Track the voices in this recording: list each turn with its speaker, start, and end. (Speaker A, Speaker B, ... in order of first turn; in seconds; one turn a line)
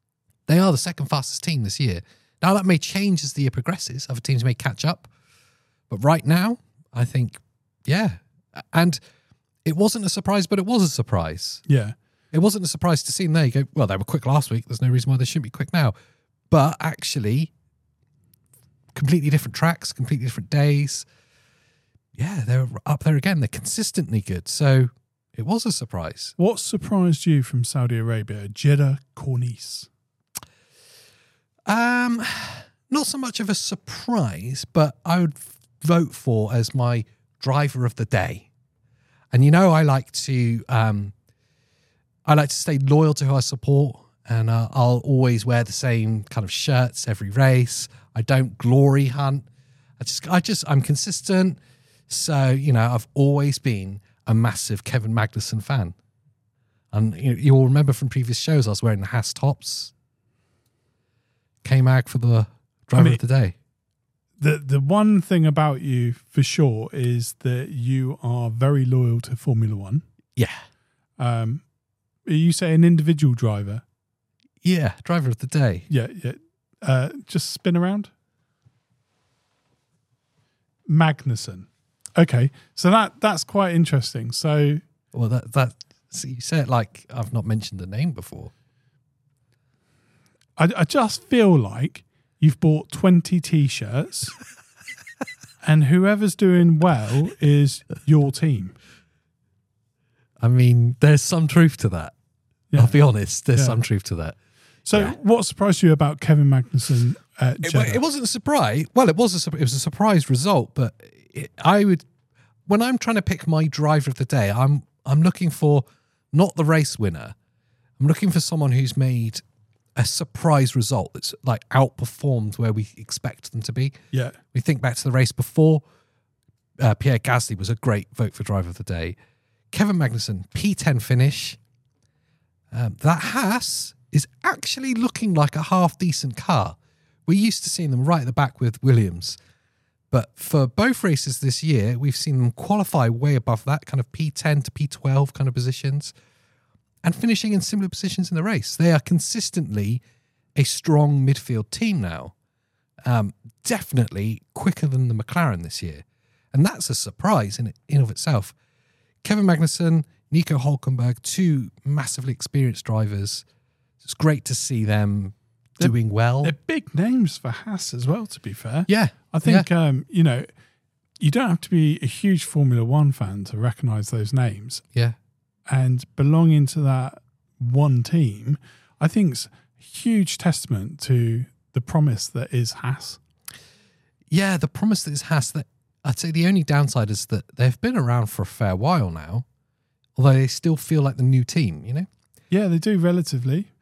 Speaker A: 0.5-5.1
Speaker A: 5.9-9.0
Speaker A: 9.7-11.6
Speaker B: 11.7-11.9
Speaker A: 12.3-15.9
Speaker A: 16.5-17.5
Speaker A: 18.9-21.1
Speaker A: 22.2-26.4
Speaker B: 26.4-29.9
Speaker A: 31.7-38.5
Speaker A: 39.3-41.1
Speaker A: 42.3-49.5
Speaker A: 50.0-56.0
Speaker A: 56.9-59.9
Speaker A: 61.6-63.5
Speaker B: 64.4-70.0
Speaker A: 70.4-70.6
Speaker B: 71.2-71.6
Speaker B: 72.2-73.8
Speaker A: 74.6-75.9
Speaker B: 75.9-78.1
Speaker B: 80.9-84.8
Speaker A: 85.1-88.5
Speaker B: 90.6-94.3
Speaker B: 95.6-98.8
Speaker A: 100.4-102.1
Speaker A: 102.8-104.3
Speaker B: 104.9-108.0
Speaker A: 107.6-112.0
Speaker A: 112.7-117.3
Speaker A: 118.0-119.4
Speaker A: 120.0-124.0
Speaker B: 124.1-124.4
Speaker A: 124.5-125.8
Speaker A: 126.8-129.2
Speaker A: 129.7-131.6
Speaker A: 132.7-136.8
Speaker A: 137.3-139.4
Speaker A: 140.1-146.1
Speaker A: 147.0-150.0
Speaker A: 150.6-152.3
Speaker A: 153.1-158.6
Speaker A: 159.2-163.4
Speaker A: 164.0-166.5
Speaker B: 165.8-170.5
Speaker A: 168.9-169.7
Speaker B: 171.2-174.8
Speaker B: 175.7-183.2
Speaker A: 184.3-189.5
Speaker A: 190.2-192.1
Speaker B: 192.5-193.7